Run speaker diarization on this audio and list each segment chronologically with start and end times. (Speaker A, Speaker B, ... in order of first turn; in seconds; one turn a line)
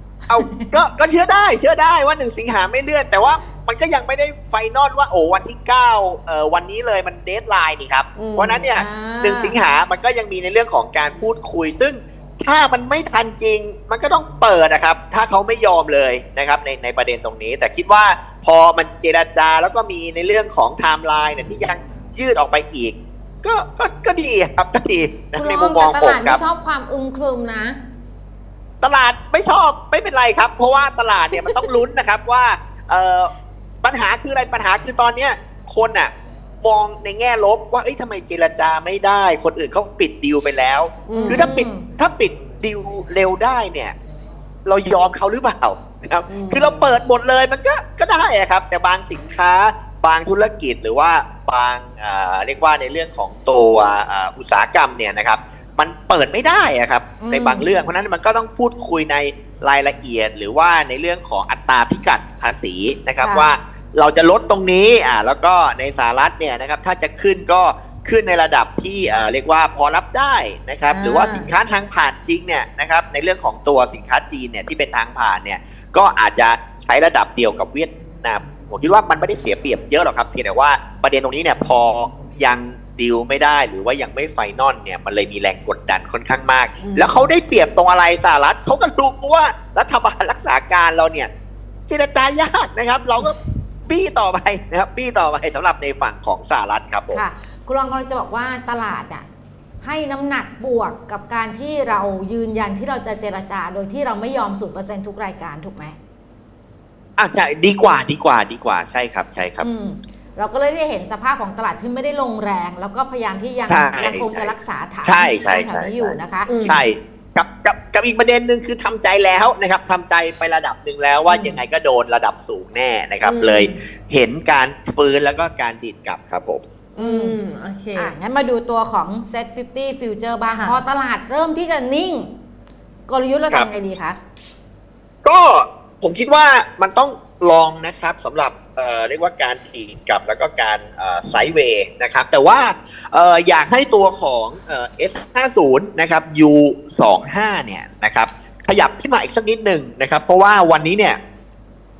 Speaker A: 0.3-26.4
Speaker B: 0.3-0.7
Speaker C: 8.2-8.7
Speaker B: 8.8-9.6
Speaker B: 25.4-27.8
Speaker A: 28.8-33.3
Speaker A: 33.8-36.1
Speaker A: 36.6-43.9
Speaker C: 41.1-41.5
Speaker B: 41.1-41.9
Speaker A: 44.7-91.3
Speaker C: 46.3-47.0
Speaker B: 57.2-57.7
Speaker B: 63.2-63.5
Speaker B: 70.9-71.5
Speaker C: 86.8-87.3
Speaker A: 91.9-97.2
Speaker B: 97.1-99.3
Speaker B: 99.8-106.0
Speaker A: 107.2-109.7
Speaker B: 109.6-116.7
Speaker A: 113.7-126.6
Speaker C: 116.5-116.8
Speaker C: 121.3-121.6
Speaker C: 123.2-123.8
Speaker C: 127.0-128.2
Speaker B: 127.0-127.4
Speaker B: 128.0-132.3
Speaker C: 130.5-130.8
Speaker B: 133.1-134.2
Speaker A: 135.2-151.2